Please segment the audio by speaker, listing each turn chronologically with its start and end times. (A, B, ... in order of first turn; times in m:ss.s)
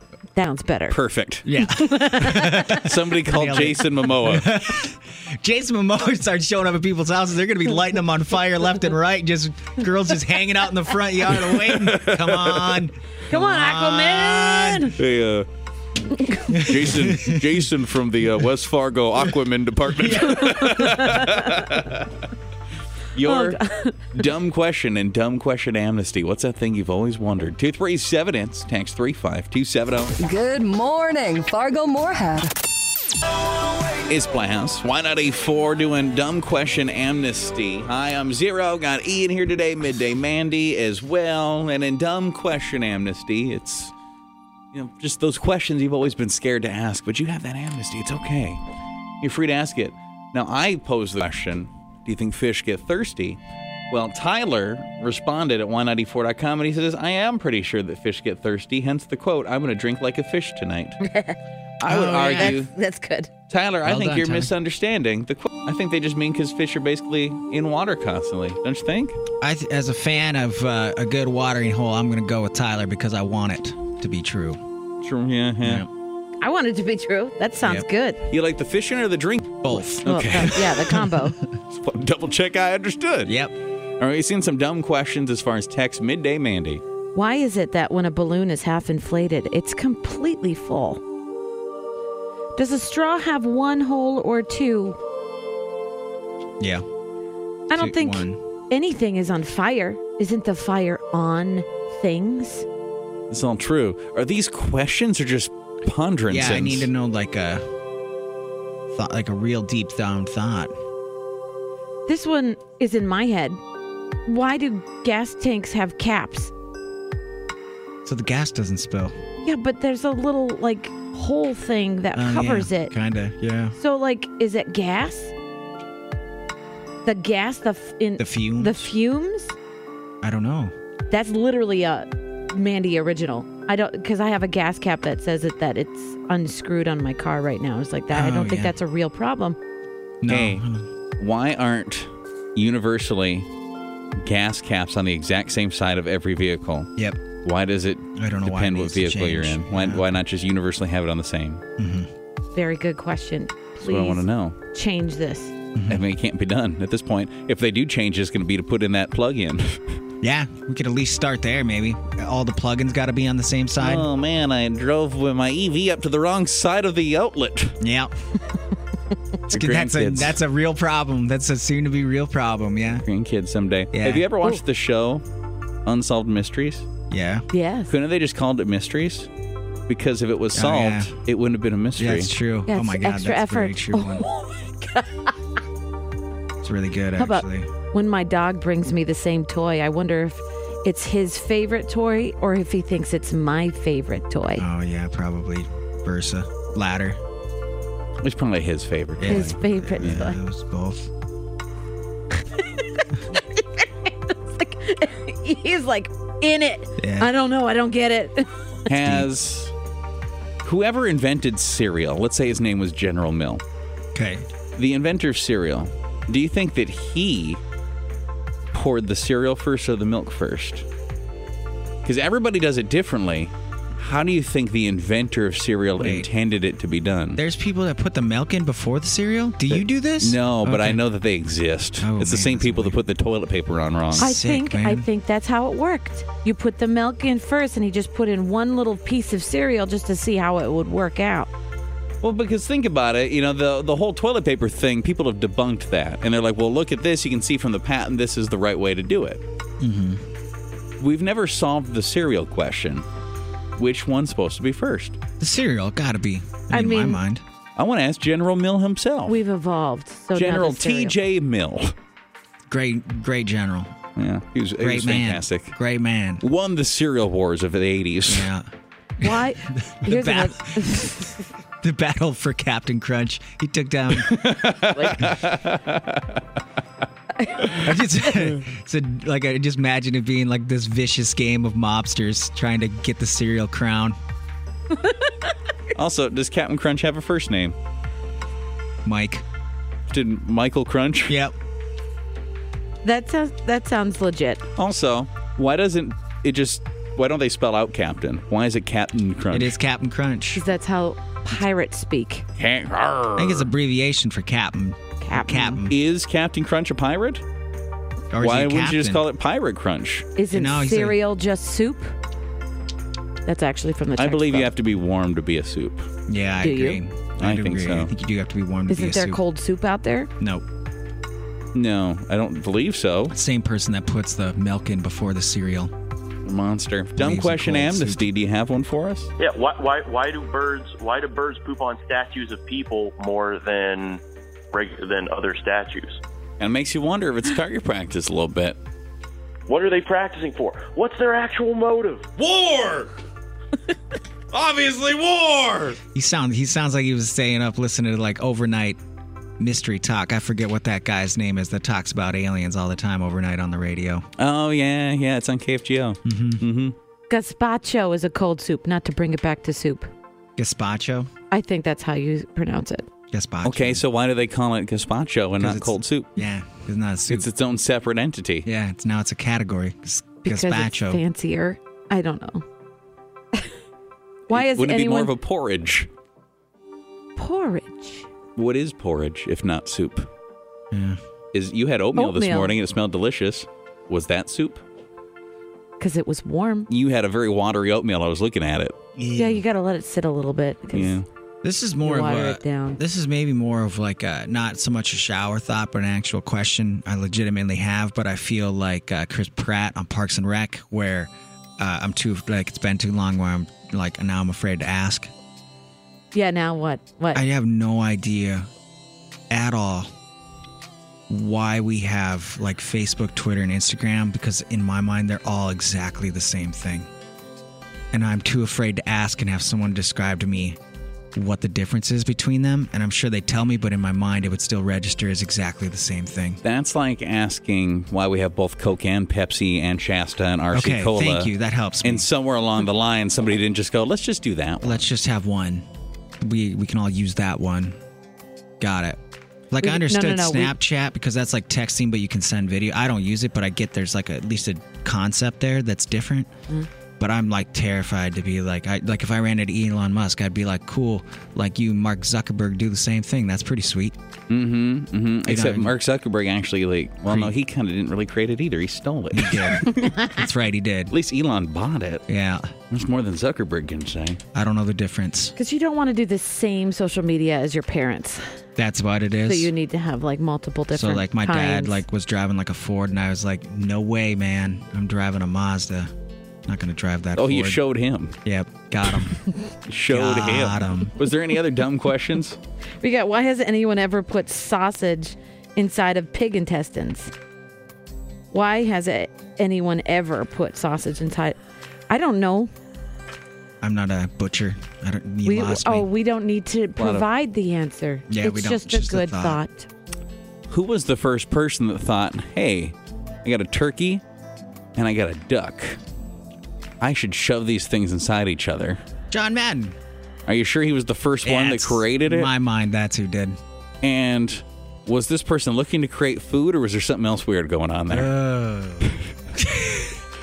0:00.4-0:01.0 A
0:00.9-0:01.5 B
0:01.4-0:14.9 C
0:01.6-0:02.8 A
0:02.5-0:04.5 B
0:11.3-0:12.8 B
0:13.3-0:14.9 A
0:15.0-0:15.5 B
0:16.1-0:16.6 A
0:16.5-0:17.5 C
0:16.5-0:22.2 B
0:20.3-0:21.6 A
0:23.1-0:23.6 B
0:23.2-0:24.0 A
0:24.1-0:30.1 B
0:30.2-0:32.5 D
0:34.1-0:43.9 B
0:44.7-0:48.6 B
0:49.2-0:53.4 B
0:53.9-1:01.0 B
1:01.0-1:01.4 A
1:01.8-1:02.7 B
1:01.9-1:02.6 C
1:02.0-1:03.3 A
1:03.5-1:09.2 B
1:03.8-1:04.5 C
1:09.4-1:14.6 C
1:15.0-1:15.8 B
1:15.6-1:15.9 C
1:16.4-1:18.2 A
1:17.6-1:17.9 C
1:18.3-1:20.8 B
1:19.6-1:21.0 C
1:19.8-1:21.4 A
1:21.7-1:23.4 B
1:23.3-1:23.5 C
1:24.0-1:26.8 B
1:27.2-1:31.0 A
1:32.6-1:35.0 A
1:37.7-1:42.7 A
1:37.7-1:38.4 C
1:43.3-1:46.9 B
1:46.3-1:47.7 C
1:48.9-1:50.7 C
1:52.1-1:53.6 A
1:54.3-1:56.5 A
1:58.0-1:59.2 C
1:59.4-2:02.9 A
2:02.1-2:03.8 C
2:03.8-2:05.3 A
2:07.0-2:09.6 A
2:08.2-2:08.8 C
2:10.2-2:10.7 C
2:11.1-2:19.6 A
2:18.1-2:18.7 C
2:20.2-2:20.9 C
2:20.3-2:20.6 B
2:21.2-2:23.5 B
2:24.2-2:26.9 B
2:27.4-2:31.6 B
2:28.2-2:30.0 C
2:31.8-2:32.1 C
2:32.6-2:35.5 A
2:33.8-2:34.6 B
2:35.8-2:36.0 C
2:35.9-2:39.8 B
2:40.2-2:44.1 C
2:43.8-2:47.8 B
2:47.8-2:48.1 C
2:49.5-2:50.4 B
2:49.5-2:53.0 C
2:52.9-2:55.2 B
2:53.9-2:54.3 C
2:55.9-2:56.9 B
2:57.1-2:57.5 C
2:57.5-2:57.9 A
2:57.9-2:59.3 B
2:59.9-3:02.3 B
3:00.5-3:01.1 C
3:02.0-3:04.3 C
3:02.7-3:05.4 A
3:06.6-3:07.7 C
3:07.2-3:14.6 A
3:14.6-3:17.2 C
3:18.2-3:19.6 B
3:19.2-3:21.1 C
3:19.3-3:20.4 A
3:22.4-3:28.6 A
3:27.0-3:27.3 C
3:28.9-3:29.7 B
3:28.9-3:29.3 C
3:30.6-3:33.6 B
3:34.2-3:34.4 C
3:34.8-3:37.6 B
3:38.7-3:40.9 B
3:42.0-3:47.4 B
3:46.0-3:46.3 C
3:47.4-3:51.0 C
3:49.7-3:54.3 B
3:52.0-3:53.0 C
3:54.1-3:55.1 C
3:54.2-4:01.5 A
4:02.2-4:09.4 B
4:09.8-4:10.2 C
4:11.0-4:13.0 B
4:13.8-4:15.2 B
4:15.4-4:17.4 C
4:16.7-4:17.2 A
4:17.8-4:19.4 B
4:19.3-4:21.2 A
4:20.3-4:21.9 B
4:22.7-4:23.9 C
4:24.2-4:25.8 B
4:24.8-4:26.4 C
4:26.4-4:28.5 B
4:28.3-4:28.6 C
4:29.2-4:31.0 C
4:29.2-4:31.5 A
4:31.7-4:35.4 C
4:34.1-4:36.4 B
4:37.6-4:44.2 C
4:44.9-4:45.3 A
4:45.9-4:47.8 B
4:49.0-4:49.4 C
4:50.1-4:51.4 B
4:51.3-4:51.6 C
4:53.0-4:54.6 A
4:54.8-4:59.8 B
4:59.5-5:00.6 C
5:00.5-5:02.5 A
5:02.6-5:03.7 B
5:03.4-5:05.9 C
5:05.2-5:05.8 A
5:05.9-5:07.4 B
5:08.3-5:09.2 C
5:08.4-5:10.3 B
5:10.4-5:12.1 A
5:10.5-5:11.2 C
5:13.5-5:14.7 A
5:14.2-5:16.1 B
5:16.3-5:19.4 C
5:16.6-5:17.0 A
5:17.4-5:18.1 B
5:18.9-5:20.3 A
5:20.4-5:20.6 C
5:21.7-5:23.3 B
5:23.3-5:25.9 C
5:26.4-5:29.3 B
5:27.2-5:28.2 C
5:29.4-5:36.2 E
5:36.6-5:38.8 B
5:39.7-5:42.3 E
5:42.4-5:43.1 B
5:44.5-5:46.0 B
5:46.1-5:49.0 C
5:49.6-5:54.3 C
5:54.4-5:57.0 B
5:56.2-5:56.6 C
5:57.3-6:00.1 A
6:00.6-6:01.3 C
6:01.5-6:03.1 A
6:03.3-6:04.0 C
6:03.6-6:06.4 B
6:05.6-6:07.5 C
6:07.3-6:08.7 B
6:08.7-6:11.2 C
6:10.4-6:12.6 A
6:14.5-6:16.1 B
6:14.5-6:15.3 A
6:17.4-6:18.3 A
6:18.6-6:20.3 B
6:20.9-6:21.2 C
6:21.5-6:24.8 B
6:22.2-6:22.8 A
6:26.0-6:26.9 A
6:26.9-6:29.0 B
6:29.2-6:29.6 C
6:29.4-6:31.2 A
6:30.9-6:31.3 B
6:31.6-6:45.3 C
6:32.0-6:33.0 A
6:46.3-6:47.4 A
6:47.3-6:48.7 C
6:49.5-6:50.1 C
6:51.3-6:57.1 C
6:58.1-7:00.8 C
7:01.4-7:06.6 C
7:06.6-7:11.5 B
7:10.7-7:12.3 C
7:12.0-7:15.0 B
7:14.8-7:15.9 C
7:16.4-7:18.0 C
7:18.8-7:19.2 C
7:19.7-7:26.5 C
7:19.8-7:20.8 A
7:27.2-7:34.2 C
7:34.5-7:39.8 B
7:35.5-7:35.9 C
7:37.3-7:37.6 C
7:39.3-7:41.1 C
7:39.8-7:40.4 A
7:41.1-7:42.2 B
7:42.3-7:42.7 C
7:42.9-7:44.4 B
7:44.5-7:45.6 C
7:45.6-7:48.4 A
7:48.8-7:49.7 C
7:49.5-7:52.0 A
7:50.9-7:56.1 C
7:56.7-7:57.8 C
7:57.4-7:58.4 B
7:58.4-7:59.4 C
7:59.9-8:02.6 B
8:00.1-8:01.1 C
8:03.0-8:07.3 A
8:08.5-8:11.6 A
8:12.1-8:12.7 A
8:13.8-8:16.1 C
8:15.4-8:19.9 A
8:17.0-8:17.3 B
8:18.3-8:19.6 C
8:20.7-8:24.2 B
8:25.0-8:26.0 B
8:27.0-8:29.0 B
8:29.3-8:30.0 C
8:30.5-8:32.5 B
8:31.4-8:33.6 C
8:34.0-8:38.3 B
8:38.1-8:39.2 C
8:39.6-8:40.1 B